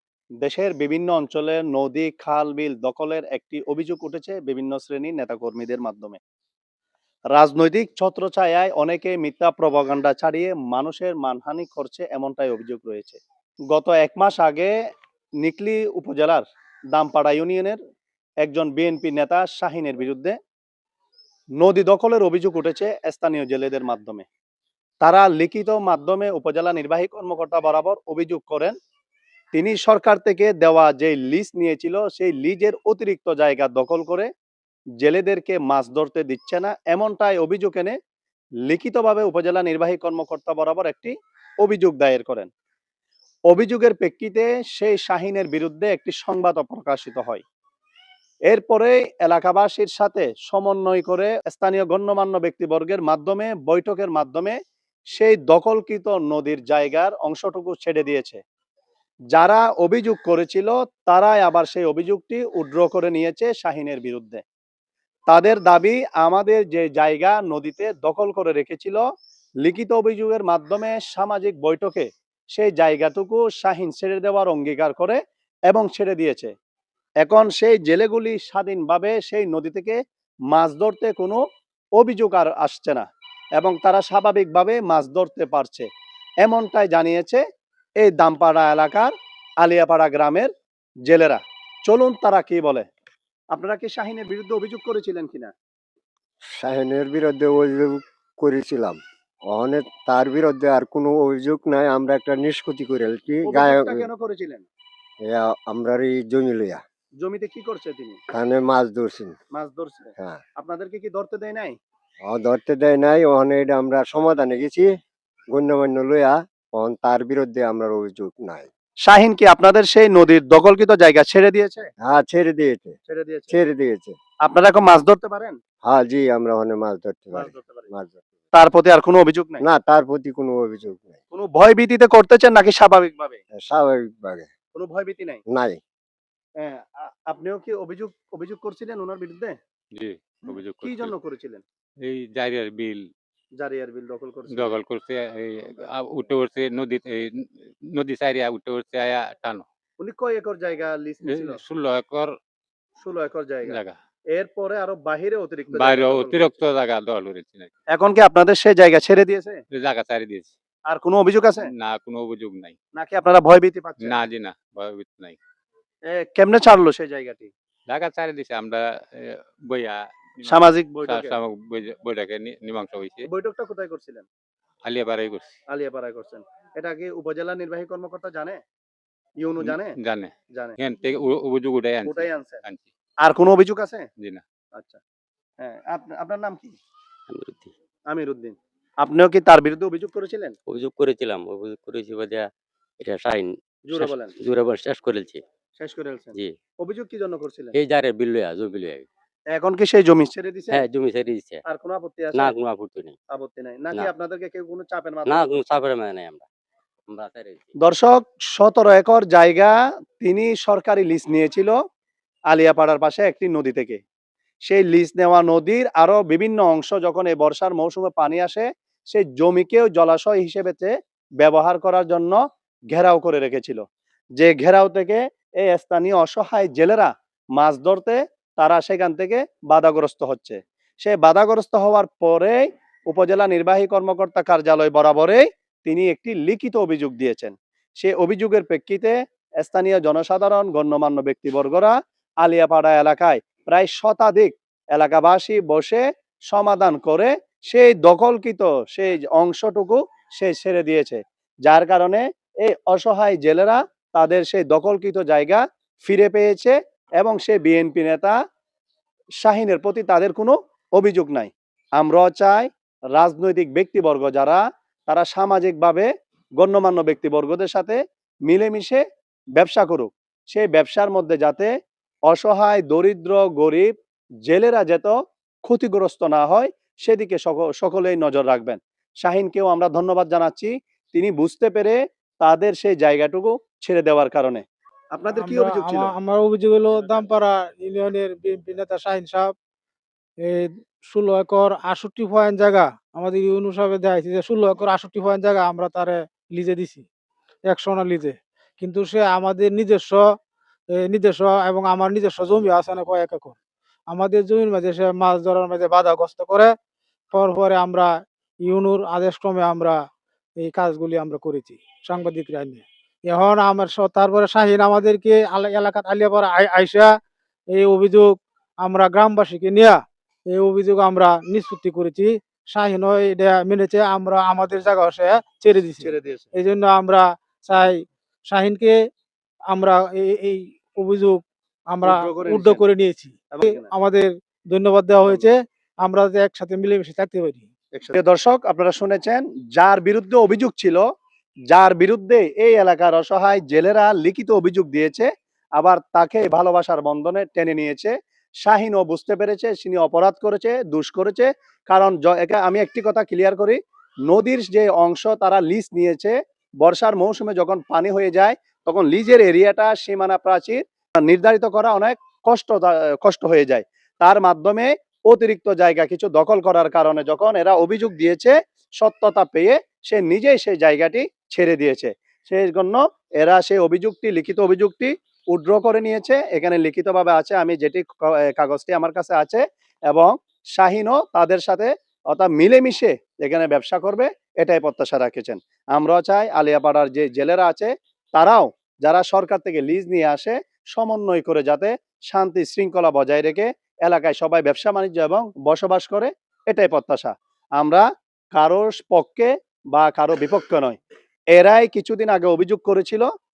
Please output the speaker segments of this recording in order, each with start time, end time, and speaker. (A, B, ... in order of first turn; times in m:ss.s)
0:00.4-0:06.2 A
0:07.3-0:13.2 A
0:13.7-0:14.7 A
0:15.4-0:17.8 A
0:18.4-0:20.4 A
0:21.6-0:24.2 A
0:25.0-0:28.7 A
0:29.5-0:34.3 A
0:35.0-0:38.0 A
0:38.7-0:42.5 A
0:43.5-0:47.4 A
0:48.5-0:54.6 A
0:55.1-0:58.4 A
0:59.3-1:04.4 A
1:05.3-1:09.0 A
1:09.6-1:16.5 A
1:17.2-1:20.0 A
1:20.5-1:21.4 A
1:22.0-1:23.0 A
1:23.6-1:25.9 A
1:26.4-1:27.4 A
1:28.0-1:30.5 A
1:31.1-1:32.9 A
1:33.5-1:35.5 A
1:36.5-1:44.1 B
1:43.4-1:44.7 A
1:45.2-1:46.8 B
1:47.2-1:48.2 A
1:48.3-1:49.4 B
1:49.5-1:51.8 A
1:52.2-1:54.9 B
1:55.5-1:58.7 B
1:59.0-2:01.9 A
2:02.0-2:02.9 B
2:03.1-2:03.5 A
2:03.5-2:04.2 B
2:04.4-2:05.6 A
2:05.8-2:08.2 B
2:07.3-2:07.9 A
2:08.5-2:09.6 A
2:09.6-2:11.2 B
2:11.3-2:13.4 A
2:13.5-2:14.5 B
2:14.7-2:15.4 A
2:15.5-2:15.8 B
2:16.6-2:19.6 A
2:19.9-2:21.1 C
2:20.5-2:21.6 A
2:22.0-2:23.1 C
2:23.6-2:24.7 A
2:24.5-2:29.6 C
2:30.0-2:31.6 A
2:31.2-2:32.3 C
2:33.0-2:33.8 A
2:33.6-2:34.0 C
2:34.3-2:36.6 A
2:35.7-2:37.7 C
2:37.9-2:39.6 A
2:39.7-2:40.5 C
2:40.9-2:41.7 A
2:41.6-2:42.8 C
2:43.0-2:44.2 A
2:44.0-2:45.4 C
2:46.1-2:47.5 A
2:47.9-2:53.3 C
2:50.4-2:51.4 A
2:53.2-2:54.2 A
2:54.8-2:55.5 C
2:55.7-2:58.6 A
2:59.4-2:59.9 A
2:59.6-3:02.9 C
3:02.0-3:02.6 A
3:03.2-3:04.1 A
3:04.7-3:05.0 A
3:05.6-3:06.8 A
3:07.3-3:07.7 D
3:08.1-3:10.5 A
3:10.7-3:12.5 D
3:13.0-3:15.4 D
3:13.9-3:14.3 A
3:15.8-3:17.8 A
3:17.7-3:19.1 D
3:19.5-3:20.8 A
3:20.7-3:21.6 D
3:21.6-3:22.5 A
3:22.3-3:23.2 D
3:23.3-3:25.5 A
3:25.2-3:26.4 D
3:27.1-3:27.7 D
3:27.8-3:31.8 A
3:32.5-3:34.0 A
3:34.6-3:42.4 A
3:42.9-3:43.8 A
3:44.4-4:18.4 A
4:19.4-4:26.1 A
4:26.6-4:29.0 A
4:29.6-4:31.7 A
4:32.3-4:33.9 A
4:34.4-4:46.1 A
4:45.3-4:49.5 E
4:50.4-4:57.0 E
4:57.6-5:00.2 E
5:00.9-5:03.6 E
5:04.1-5:06.7 E
5:07.3-5:08.1 E
5:08.6-5:10.0 E
5:10.6-5:17.1 E
5:17.7-5:29.0 E
5:26.0-5:26.5 A
5:29.7-5:37.7 E
5:32.0-5:32.8 A
5:33.5-5:33.9 A
5:35.3-5:35.5 A
5:38.0-5:41.0 A
5:41.7-6:41.0 A
6:41.5-6:43.3 A